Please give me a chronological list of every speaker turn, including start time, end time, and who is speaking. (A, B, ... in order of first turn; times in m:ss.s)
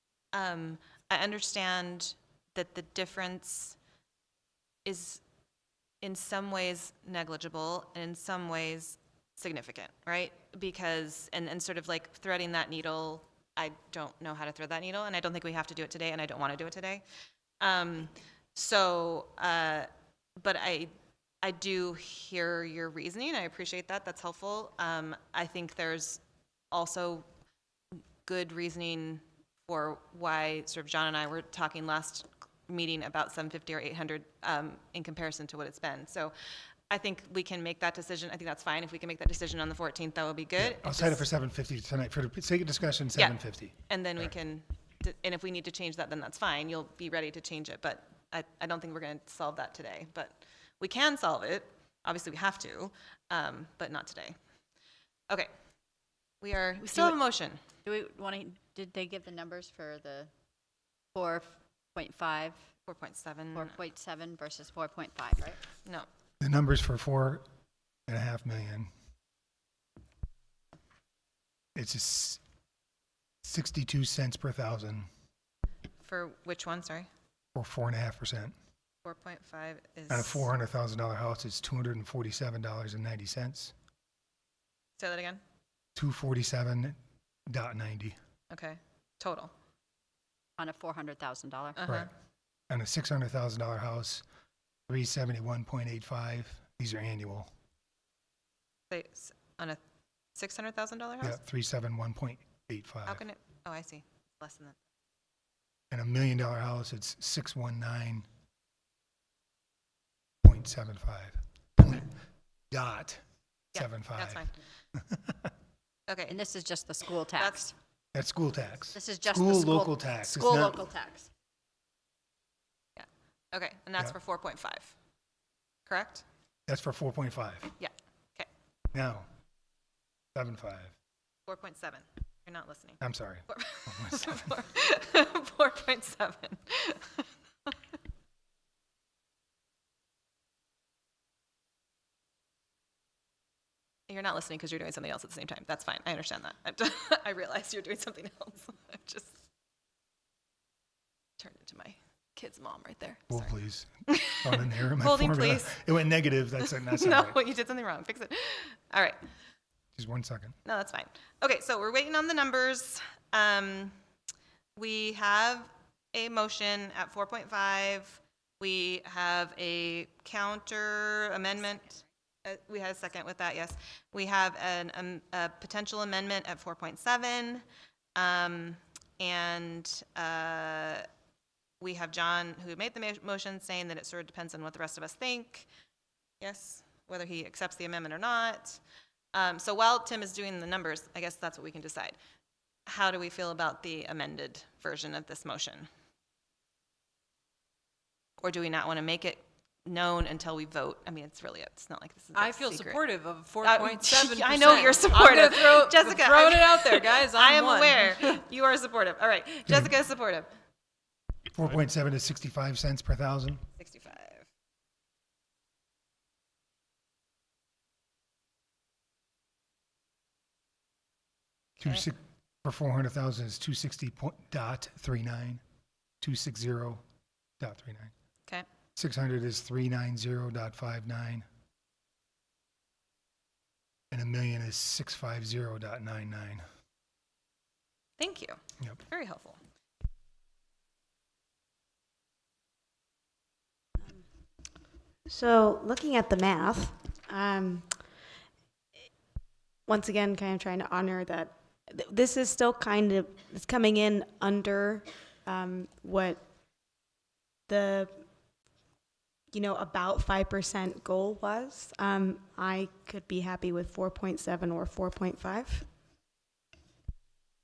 0:00.3-0:03.8 A
0:04.8-0:05.2 A
0:06.0-0:17.0 A
0:17.6-0:27.3 A
0:28.2-0:36.4 A
0:36.9-0:41.2 A
0:40.6-0:44.3 B
0:43.2-0:54.4 A
0:56.4-0:57.6 A
0:56.8-0:57.2 C
0:57.8-1:00.3 C
1:01.1-1:02.6 C
1:02.9-1:03.8 A
1:03.5-1:05.6 C
1:06.4-1:07.4 B
1:08.1-1:08.9 B
1:11.8-1:12.4 B
1:13.4-1:15.1 B
1:16.0-1:17.1 A
1:17.6-1:18.6 B
1:19.0-1:20.5 A
1:20.1-1:23.7 B
1:25.0-1:25.4 A
1:26.0-1:28.2 B
1:28.5-1:29.5 A
1:30.6-1:31.8 C
1:31.8-1:32.1 A
1:32.7-1:34.2 B
1:34.9-1:37.5 B
1:38.9-1:39.8 A
1:40.4-1:41.4 A
1:41.2-1:43.2 B
1:43.1-1:44.8 A
1:45.9-1:48.3 B
1:50.4-1:52.1 B
1:52.7-1:53.2 B
1:53.7-1:55.5 B
1:53.7-1:54.6 A
1:56.1-1:56.4 A
1:56.3-1:57.7 C
1:57.4-1:57.7 A
1:58.1-2:00.8 B
1:58.9-2:01.3 C
2:03.0-2:04.9 A
2:05.9-2:06.2 A
2:06.7-2:07.7 B
2:07.8-2:08.5 A
2:08.9-2:09.3 B
2:10.4-2:10.9 B
2:11.5-2:17.2 A
2:13.0-2:14.5 B
2:24.1-2:29.4 A
2:31.4-2:33.5 A
2:33.3-2:37.4 B
2:34.1-2:35.8 A
2:36.6-2:39.2 A
2:40.0-2:40.6 B
2:40.6-2:44.0 A
2:44.8-2:57.6 A
2:58.2-3:01.0 A
3:01.8-3:05.7 A
3:06.4-3:08.8 A
3:09.3-3:12.2 A
3:12.9-3:15.9 A
3:18.4-3:23.0 A
3:22.3-3:28.4 D
3:23.6-3:30.5 A
3:31.5-3:33.6 B
3:33.8-3:34.5 A
3:41.8-3:45.6 B
3:46.2-3:47.0 B
3:47.6-3:48.1 B
3:49.0-3:51.4 B
3:54.1-3:56.6 B
3:58.2-3:59.6 A
4:05.3-4:08.0 E
4:09.9-4:16.4 E
4:17.7-4:18.2 E
4:19.5-4:25.9 E